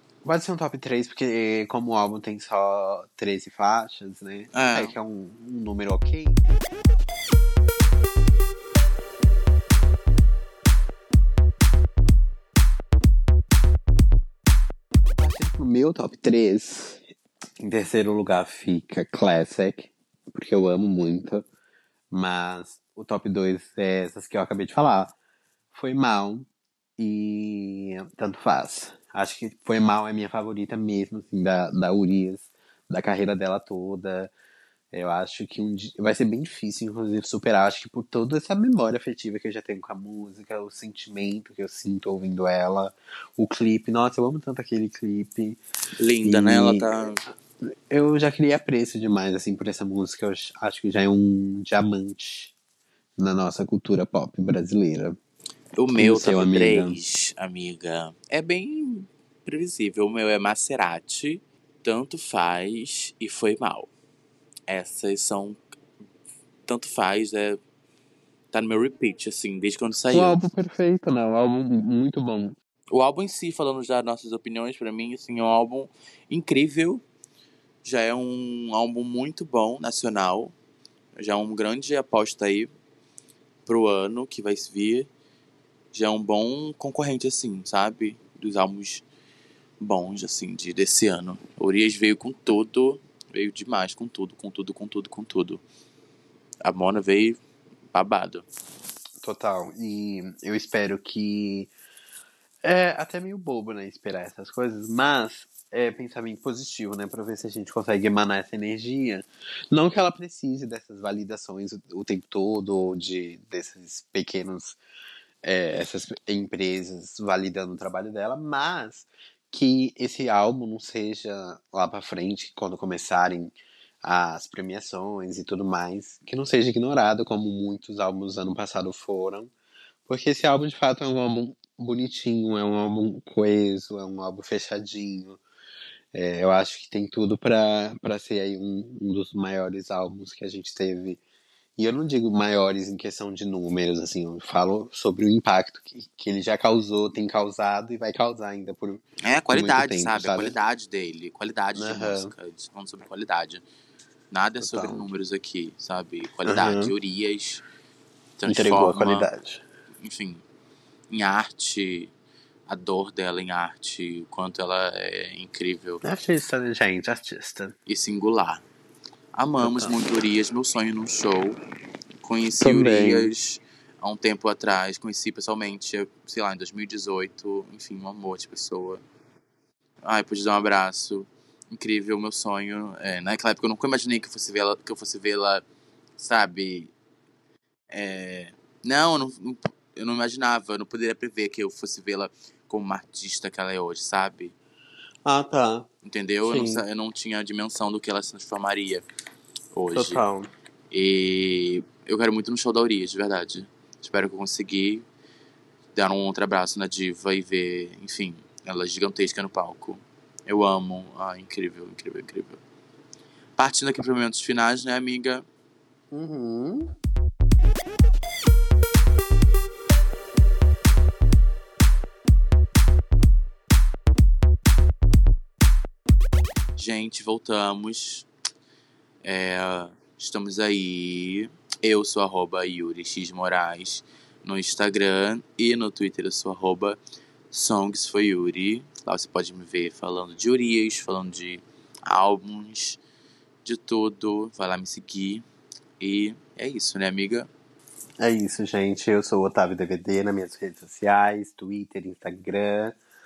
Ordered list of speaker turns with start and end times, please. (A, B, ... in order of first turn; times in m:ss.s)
0:00.2-0:06.4 A
0:04.5-0:04.9 B
0:15.0-0:17.0 A
0:17.6-0:21.4 A
0:22.1-0:25.1 A
0:25.7-0:26.5 A
0:27.0-0:34.3 A
0:34.9-0:45.6 A
0:46.0-0:47.2 B
0:46.2-0:46.9 A
0:47.6-0:52.5 A
0:53.2-0:55.2 A
0:55.8-1:03.9 B
0:56.0-0:57.0 A
1:04.7-1:05.6 B
1:06.7-1:07.6 B
1:08.5-1:10.4 B
1:10.1-1:12.6 A
1:12.9-1:17.0 B
1:17.8-1:20.5 B
1:21.2-1:22.7 B
1:23.7-1:25.1 B
1:25.9-1:29.0 B
1:29.8-1:35.6 B
1:36.6-1:37.4 B
1:37.9-1:38.4 B
1:39.2-1:41.7 A
1:42.6-1:54.8 A
1:55.4-2:09.5 A
2:10.1-2:15.4 A
2:16.1-2:21.2 A
2:21.8-2:30.6 A
2:29.2-2:33.6 B
2:31.8-2:32.3 A
2:34.3-2:37.6 B
2:34.6-2:35.1 A
2:36.4-2:37.0 A
2:38.4-2:39.3 B
2:38.5-2:39.6 A
2:40.0-2:40.4 B
2:41.1-2:42.1 B
2:42.7-2:46.0 B
2:46.0-2:47.8 A
2:47.9-2:48.6 B
2:49.3-2:51.6 B
2:49.6-2:50.0 A
2:52.2-2:59.0 B
2:52.6-2:53.3 A
3:00.0-3:05.6 B
3:06.2-3:06.9 B
3:07.9-3:14.6 B
3:15.3-3:15.9 A
3:16.0-3:19.0 B
3:16.4-3:16.8 A
3:19.7-3:20.2 B
3:19.9-3:20.5 A
3:20.9-3:25.1 B
3:26.0-3:32.6 B
3:33.6-3:35.4 B
3:36.1-3:36.9 A
3:46.8-3:48.3 B
3:49.2-3:57.0 B
3:57.5-4:03.0 B
4:03.6-4:05.5 B
4:06.0-4:07.5 B
4:08.2-4:13.0 A